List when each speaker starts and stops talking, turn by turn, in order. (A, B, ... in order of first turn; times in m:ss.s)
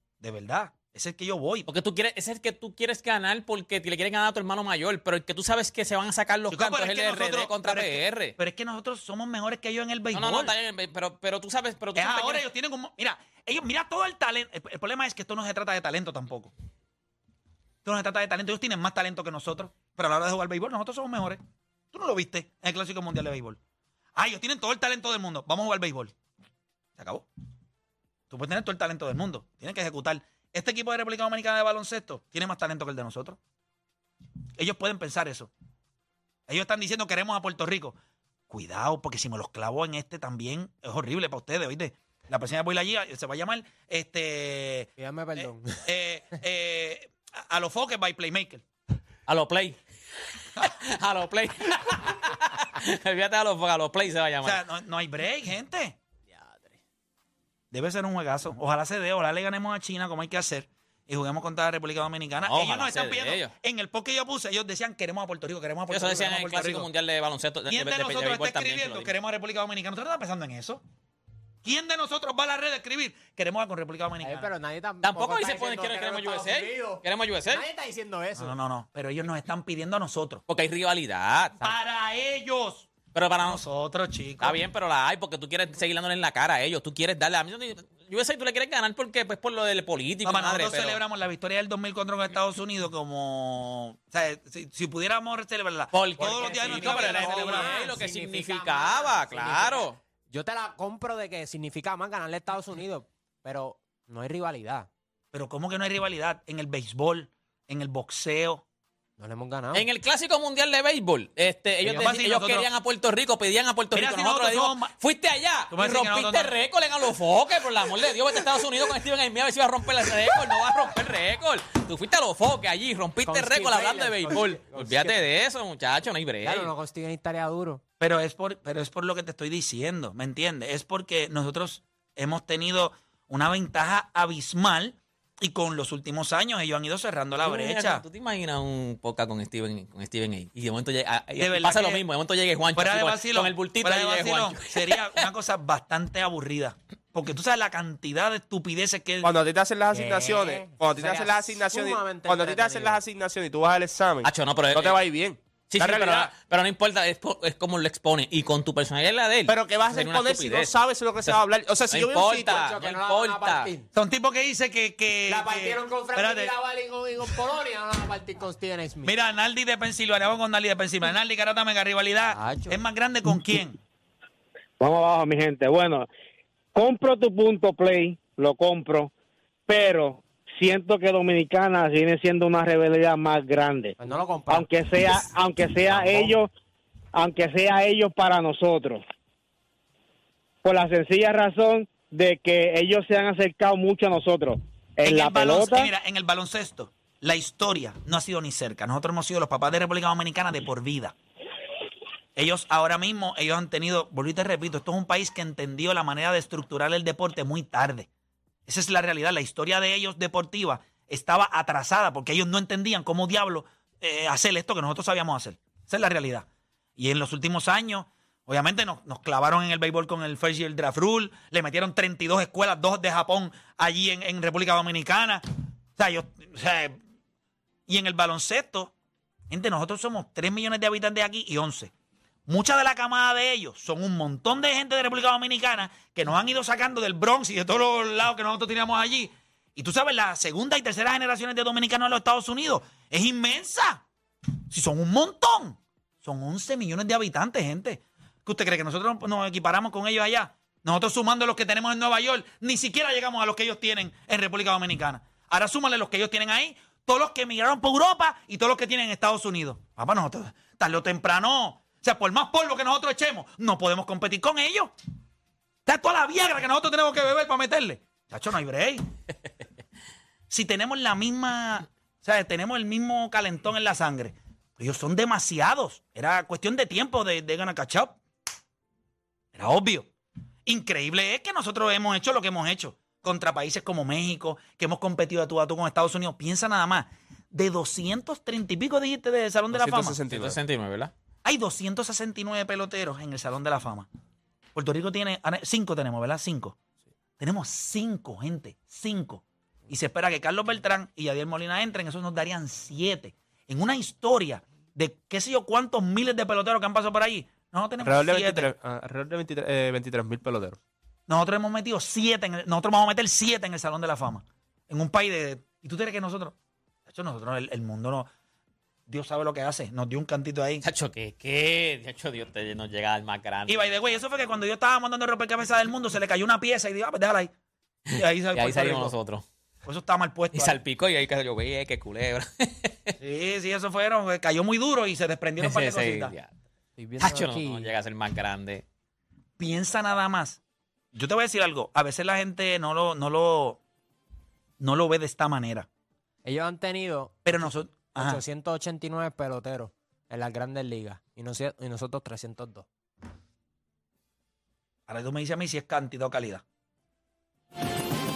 0:00.2-0:01.7 A
0:01.7-0:08.4 B
0:06.5-0:10.5 A
0:10.1-0:12.4 B
0:12.0-0:16.5 A
0:17.8-0:21.4 A
0:21.9-0:23.6 A
0:24.2-0:26.1 A
0:27.0-0:27.2 A
0:28.3-0:33.4 A
0:34.6-0:35.5 A
0:36.5-0:38.0 A
0:38.5-0:48.6 A
0:45.0-0:45.9 C
0:49.3-0:49.8 B
0:50.6-0:54.6 B
0:54.4-0:56.0 A
0:56.4-0:56.7 B
0:57.7-1:06.9 A
1:02.4-1:03.5 B
1:05.9-1:09.1 B
1:07.7-1:10.8 A
1:11.6-1:14.5 A
1:14.2-1:18.6 C
1:15.0-1:17.6 B
1:18.4-1:20.4 A
1:20.5-1:21.7 B
1:21.6-1:24.6 A
1:23.1-1:23.6 B
1:24.4-1:31.0 B
1:30.2-1:37.8 A
1:35.9-1:40.0 B
1:36.2-1:44.9 C
1:45.3-1:48.6 A
1:49.2-1:49.9 C
1:49.7-2:06.7 B
1:51.9-1:52.6 A
1:53.9-1:54.9 A
1:55.7-1:56.5 A
2:03.2-2:05.2 C
2:06.4-2:07.8 C
2:08.0-2:18.0 A
2:17.4-2:25.3 B
2:21.4-2:22.0 A
2:22.8-2:29.3 A
2:29.2-2:36.3 D
2:29.9-2:33.0 C
2:34.2-2:35.0 B
2:35.7-2:40.7 B
2:39.5-2:42.6 D
2:41.2-2:43.7 B
2:42.4-2:43.9 C
2:43.9-2:46.5 A
2:45.3-2:49.1 C
2:49.0-2:53.8 A
2:52.3-2:52.8 C
2:54.8-2:56.1 E
2:56.8-2:59.1 E
2:59.7-3:04.0 E
3:04.0-3:05.3 C
3:04.5-3:06.5 E
3:05.9-3:06.4 C
3:07.1-3:09.0 E
3:10.6-3:15.9 E
3:15.0-3:21.2 A
3:22.4-3:28.1 A
3:28.6-3:47.0 A
3:47.9-3:48.9 A
3:49.5-3:51.9 A
3:52.5-4:04.0 A
4:04.7-4:24.9 A
4:25.9-4:29.1 A
4:30.5-4:38.2 A
4:39.5-4:40.1 A
4:40.6-4:50.2 A
4:49.7-4:50.6 D
4:50.3-4:51.1 B
4:51.4-4:54.1 A
4:54.8-4:56.8 A
4:57.4-5:08.7 A
5:08.0-5:10.8 D
5:11.3-5:16.6 A
5:17.1-5:18.3 A
5:19.1-5:20.8 A
5:20.8-5:24.0 B
5:23.7-5:27.5 A
5:28.1-5:29.1 A
5:28.1-5:29.4 B
5:29.8-5:30.8 A
5:30.6-5:33.1 B
5:33.2-5:36.3 A
5:35.6-5:36.5 B
5:37.0-5:37.9 C
5:37.2-5:38.8 B
5:39.6-5:40.6 A
5:41.1-5:43.8 A
5:44.8-5:45.9 A
5:46.4-5:52.9 C
5:47.4-5:48.4 A
5:55.1-5:56.6 A